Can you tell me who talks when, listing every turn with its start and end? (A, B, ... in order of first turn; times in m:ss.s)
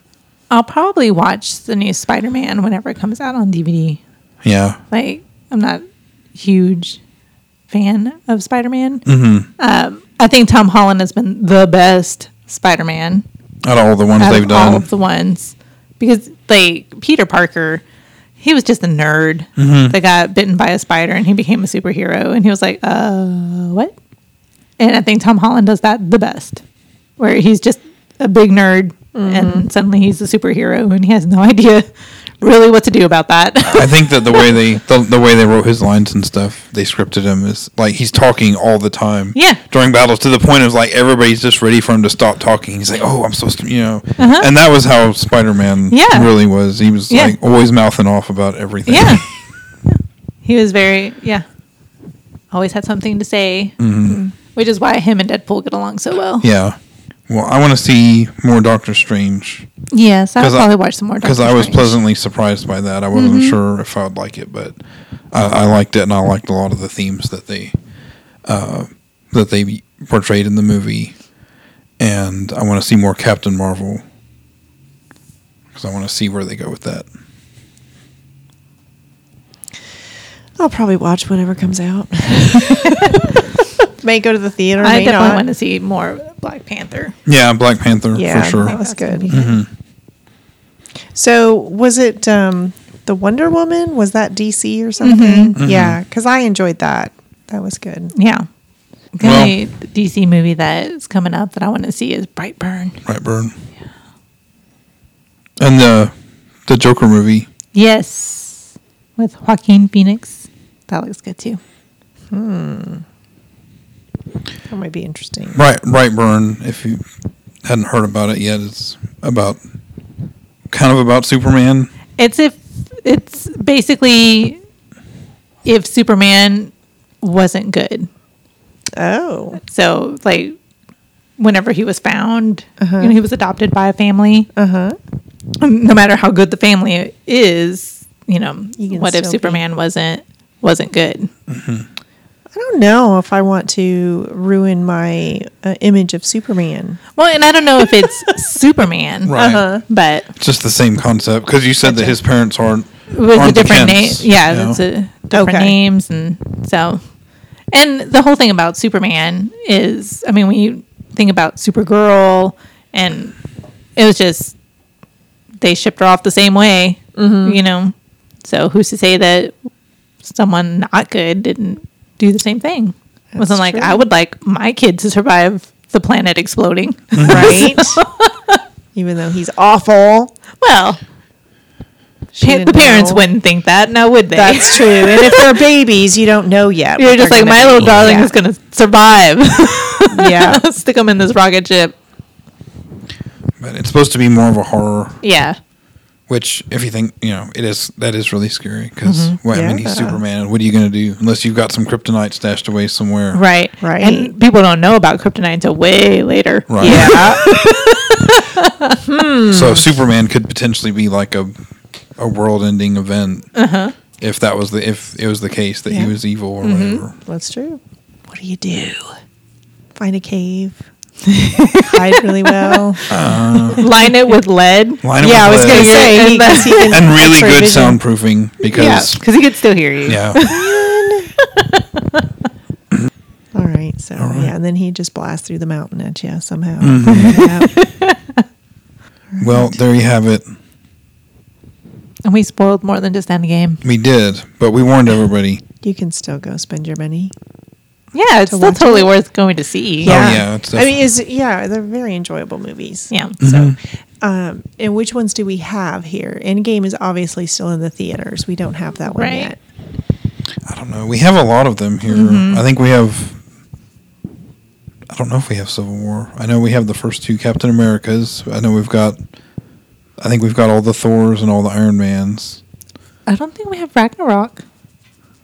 0:00.5-0:04.0 A
0:04.4-0:04.8 B
0:04.9-0:05.8 A
0:06.4-0:07.0 A
0:07.7-0:09.1 A
0:09.1-0:09.5 B
0:09.6-0:13.2 A
0:13.6-0:14.9 B
0:14.2-0:17.8 A
0:18.4-0:24.0 A
0:19.6-0:20.0 B
0:24.8-0:26.6 A
0:27.2-0:31.9 A
0:29.1-0:29.6 C
0:32.4-0:34.5 A
0:33.7-0:49.2 B
0:39.4-0:39.6 A
0:44.2-0:44.5 A
0:45.9-0:46.3 A
0:47.1-0:47.4 A
0:48.9-0:49.2 A
0:50.4-0:51.4 A
0:52.5-0:53.8 A
0:53.8-0:54.2 B
0:54.5-0:56.4 A
0:56.4-0:59.7 B
0:59.9-1:02.0 A
1:00.4-1:04.8 B
1:03.1-1:03.6 A
1:05.3-1:07.7 B
1:08.4-1:11.2 B
1:12.0-1:14.0 B
1:15.7-1:17.1 B
1:20.6-1:23.4 C
1:24.0-1:25.4 C
1:24.8-1:27.2 A
1:27.3-1:28.8 B
1:28.1-1:29.5 C
1:28.5-1:29.5 A
1:29.3-1:29.7 B
1:31.1-1:38.1 C
1:35.0-1:35.6 A
1:35.6-1:36.0 B
1:38.1-1:38.5 A
1:39.1-1:43.0 A
1:39.2-1:39.6 B
1:43.0-1:43.6 B
1:45.6-1:46.1 B
1:46.7-1:47.5 B
1:47.7-1:51.6 A
1:52.3-1:53.0 C
1:54.7-1:55.6 C
1:55.6-1:57.0 B
1:57.6-1:59.6 B
2:00.7-2:01.9 B
2:02.2-2:04.6 A
2:05.6-2:08.1 A
2:09.0-2:09.6 C
2:09.6-2:10.6 A
2:11.4-2:14.5 A
2:12.8-2:13.2 C
2:14.6-2:15.0 C
2:15.6-2:21.3 A
2:18.8-2:19.6 C
2:21.5-2:21.9 B
2:22.5-2:27.0 C
2:27.2-2:30.3 A
2:29.2-2:29.7 B
2:29.3-2:29.8 C
2:30.4-2:34.8 B
2:31.8-2:32.2 C
2:33.1-2:37.0 A
2:35.3-2:35.8 C
2:37.7-2:43.4 A
2:44.0-2:44.5 A
2:45.6-2:49.6 A
2:47.2-2:47.6 C
2:50.2-2:58.6 A
2:53.3-2:54.0 C
2:57.2-2:57.7 B
2:57.2-2:58.0 C
2:59.0-3:00.3 C
3:00.6-3:01.0 A
3:02.3-3:03.2 C
3:02.4-3:05.6 A
3:04.3-3:08.3 C
3:07.0-3:12.0 A
3:10.1-3:10.6 C
3:13.6-3:15.2 B
3:15.2-3:15.6 A
3:16.3-3:23.4 B
3:19.0-3:19.4 A
3:19.5-3:20.2 C
3:23.3-3:29.0 A
3:23.8-3:24.3 C
3:26.7-3:27.3 B
3:26.8-3:27.4 C
3:29.0-3:29.9 C
3:29.4-3:31.5 B
3:32.2-3:33.5 B
3:33.6-3:34.0 A
3:34.2-3:37.2 B
3:36.6-3:37.0 A
3:37.2-3:39.1 C
3:40.0-3:40.8 C
3:41.3-3:47.0 A
3:41.8-3:44.4 C
3:43.1-3:43.9 B
3:45.0-3:46.0 B
3:45.2-3:48.0 C
3:46.9-3:49.2 B
3:48.7-3:52.2 A
3:50.0-3:50.4 B
3:50.4-3:51.3 C
3:53.5-3:57.7 C
3:54.2-3:54.5 B
3:56.8-3:57.6 B
3:57.1-3:58.4 A
3:59.3-3:59.7 C
3:59.4-4:00.4 B
4:02.2-4:03.8 A
4:03.8-4:05.6 B
4:05.8-4:07.3 C
4:08.1-4:10.3 A
4:08.5-4:09.1 C
4:10.0-4:10.9 B
4:10.0-4:19.6 C
4:13.1-4:13.4 A
4:13.4-4:13.8 B
4:19.1-4:19.5 A
4:20.7-4:23.4 B
4:22.1-4:22.6 A
4:25.1-4:29.2 B
4:30.2-4:32.6 B
4:33.3-4:34.6 A